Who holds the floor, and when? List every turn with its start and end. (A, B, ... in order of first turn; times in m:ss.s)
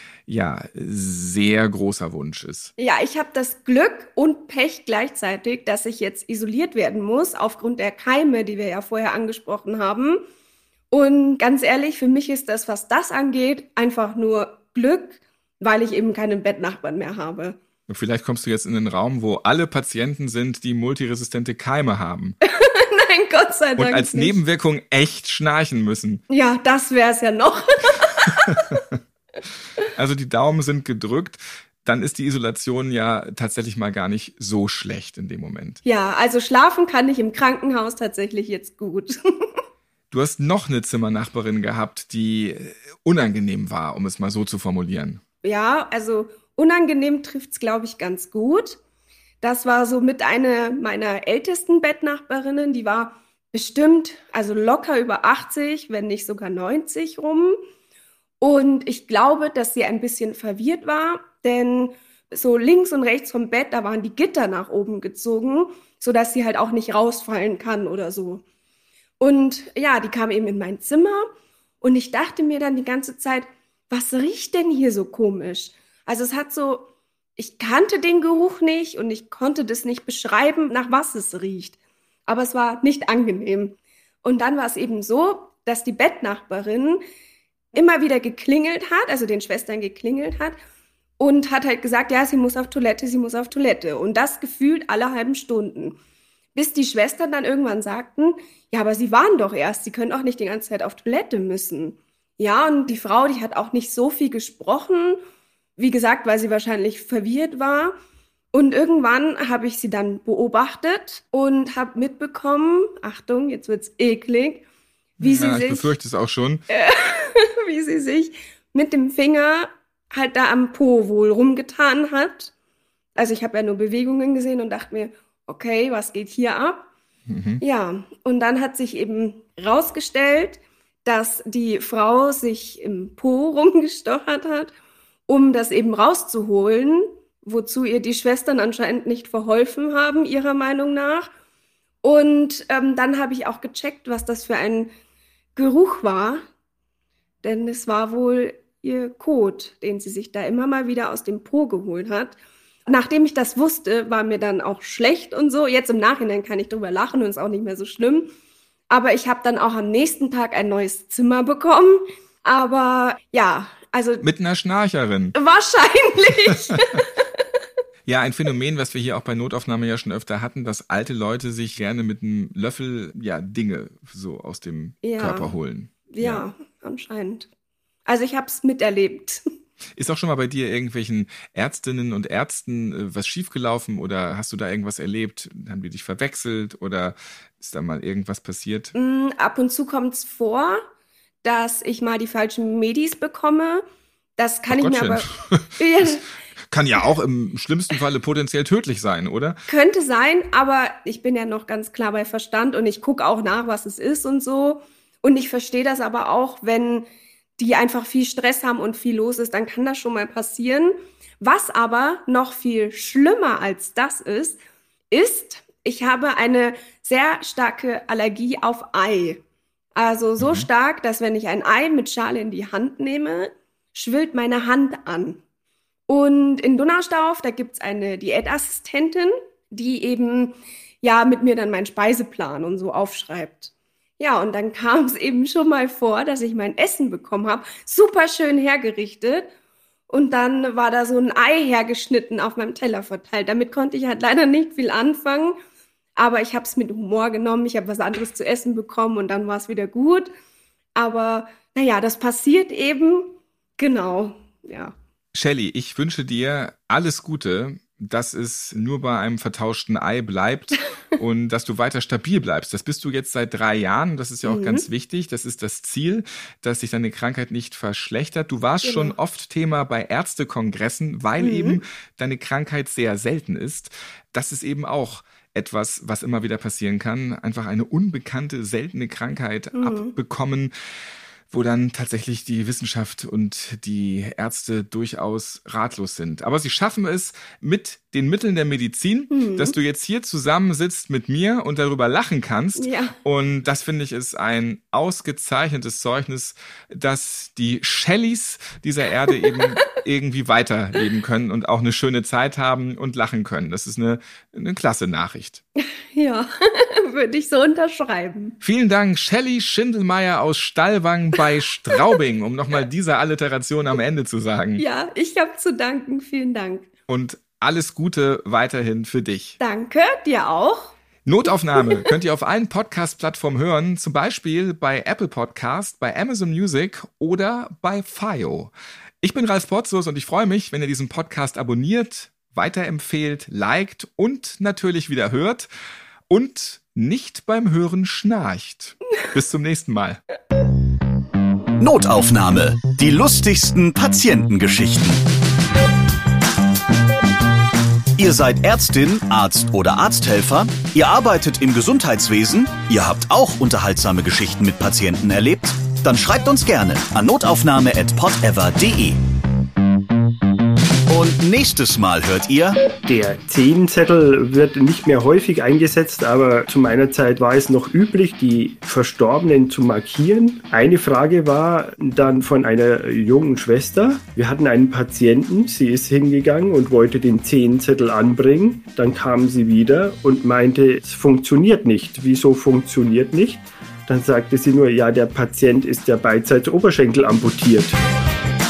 0:00.3-0:02.7 A
0:02.8-0:10.2 B
0:10.9-0:17.6 B
0:17.9-0:22.4 A
0:22.4-0:24.4 B
0:23.8-0:26.2 A
0:26.3-0:28.8 B
0:29.9-0:35.8 A
0:35.8-0:39.6 B
0:40.1-0:45.2 A
0:45.4-0:48.8 B
0:49.4-0:57.6 B
0:58.4-1:08.4 B
1:09.2-1:11.3 B
1:11.8-1:21.8 B
1:22.3-1:27.0 B
1:27.7-1:30.6 B
1:31.2-1:36.0 B
1:36.5-1:45.2 B
1:45.8-1:48.0 B
1:48.5-1:54.6 B
1:55.2-1:55.9 B
1:55.2-1:56.6 A
1:56.7-2:02.5 B
2:03.2-2:06.9 B
2:07.3-2:07.6 A
2:07.6-2:14.7 B
2:15.3-2:21.3 B
2:22.0-2:24.9 B
2:25.6-2:26.4 B
2:27.4-2:38.3 B
2:38.9-2:44.2 B
2:44.2-2:45.3 A
2:45.3-2:47.4 B
2:46.7-2:47.0 A
2:48.0-2:56.4 A
2:55.0-2:55.5 B
2:56.1-2:57.5 B
2:58.0-2:59.4 B
3:00.0-3:08.9 A
3:08.9-3:10.8 B
3:11.4-3:13.8 B
3:14.4-3:16.3 B
3:14.7-3:16.1 A
3:16.7-3:19.6 A
3:19.7-3:27.0 B
3:27.6-3:34.6 B
3:35.1-3:39.4 B
3:40.0-3:45.4 B
3:40.4-3:40.7 A
3:46.1-3:59.5 B
4:00.1-4:05.6 B
4:06.2-4:10.3 B
4:11.0-4:14.9 B
4:15.3-4:40.7 A
4:24.4-4:24.8 B
4:28.8-4:29.1 B
4:31.4-4:31.8 B
4:39.7-4:40.1 B
4:41.5-5:05.6 A
4:49.3-4:49.7 B
4:52.8-4:53.2 B
4:59.4-4:59.8 B
5:05.8-5:08.6 B
5:08.6-5:14.8 A
5:14.8-5:16.9 B
5:17.1-5:19.6 A
5:19.6-5:20.9 B
5:21.2-5:28.7 A
5:21.8-5:22.1 B
5:29.2-5:35.7 A
5:36.3-5:40.2 A
5:41.8-5:45.2 C
5:48.2-5:59.2 C
6:01.1-6:02.8 C
6:03.0-6:28.0 D